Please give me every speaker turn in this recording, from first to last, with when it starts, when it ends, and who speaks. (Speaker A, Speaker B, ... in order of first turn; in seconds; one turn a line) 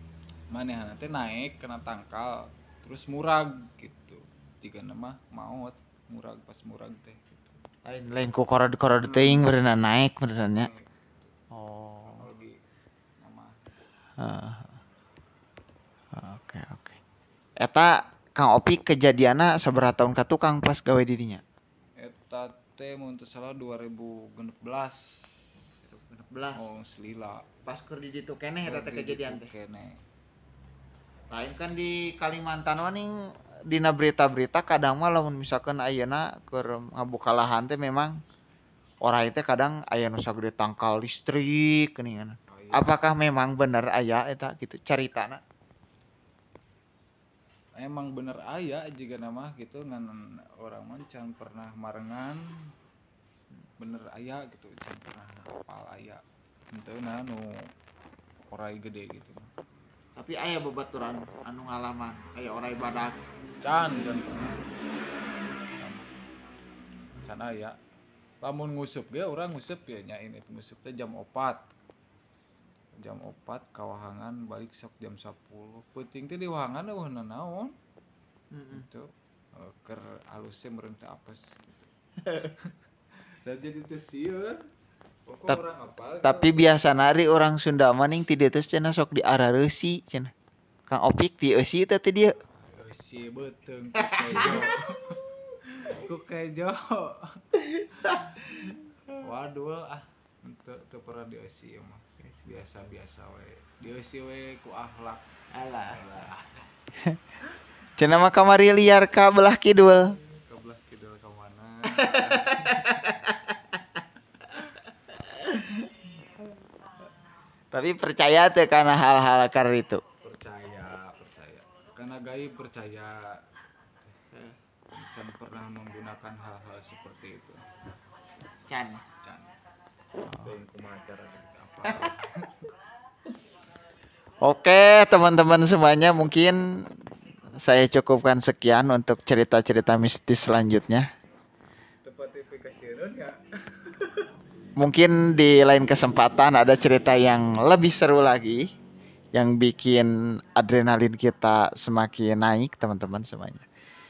Speaker A: 0.5-7.6
Speaker B: 7.9-10.7
Speaker A: 9.0-9.5
Speaker A: 10.5-11.3
Speaker B: 11.5-12.3
Speaker A: 12.1-12.6
Speaker A: 13.2-13.6
Speaker B: 14.2-14.8
Speaker B: 16.1-17.0
Speaker B: 17.6-21.4
Speaker A: 22.0-25.4
Speaker B: 25.8-26.6
Speaker A: 26.5-27.5
Speaker B: 27.6-29.5
Speaker A: 28.6-30.0
Speaker B: 31.3-33.1
Speaker B: 33.7-38.1
Speaker B: 39.0-45.4
Speaker A: 42.5-43.0
Speaker A: 47.8-52.4
Speaker A: 53.8-56.2
Speaker A: 56.7-57.5
Speaker A: 58.5-59.5
Speaker B: 60.2-63.2
Speaker A: 63.6-64.7
Speaker A: 65.8-66.1
Speaker A: 67.2-67.8
Speaker A: 68.4-71.6
Speaker A: 73.0-77.7
Speaker B: 78.5-78.9
Speaker A: 78.7-84.6
Speaker A: 85.3-86.7
Speaker B: 86.2-90.3
Speaker B: 90.9-92.4
Speaker A: 92.5-97.4
Speaker B: 94.0-94.6
Speaker B: 97.8-98.8
Speaker A: 99.2-105.2
Speaker B: 105.5-106.0
Speaker A: 105.8-106.7
Speaker B: 108.0-110.1
Speaker A: 109.8-113.1
Speaker B: 111.9-113.8
Speaker B: 115.3-115.9
Speaker B: 117.7-120.0
Speaker A: 120.2-123.4
Speaker A: 124.9-127.6
Speaker B: 128.7-129.0
Speaker A: 129.2-129.5
Speaker B: 130.2-130.5
Speaker A: 130.3-132.7
Speaker B: 134.4-136.6
Speaker B: 137.6-141.0
Speaker A: 142.0-144.3
Speaker B: 144.8-148.6
Speaker B: 149.3-153.7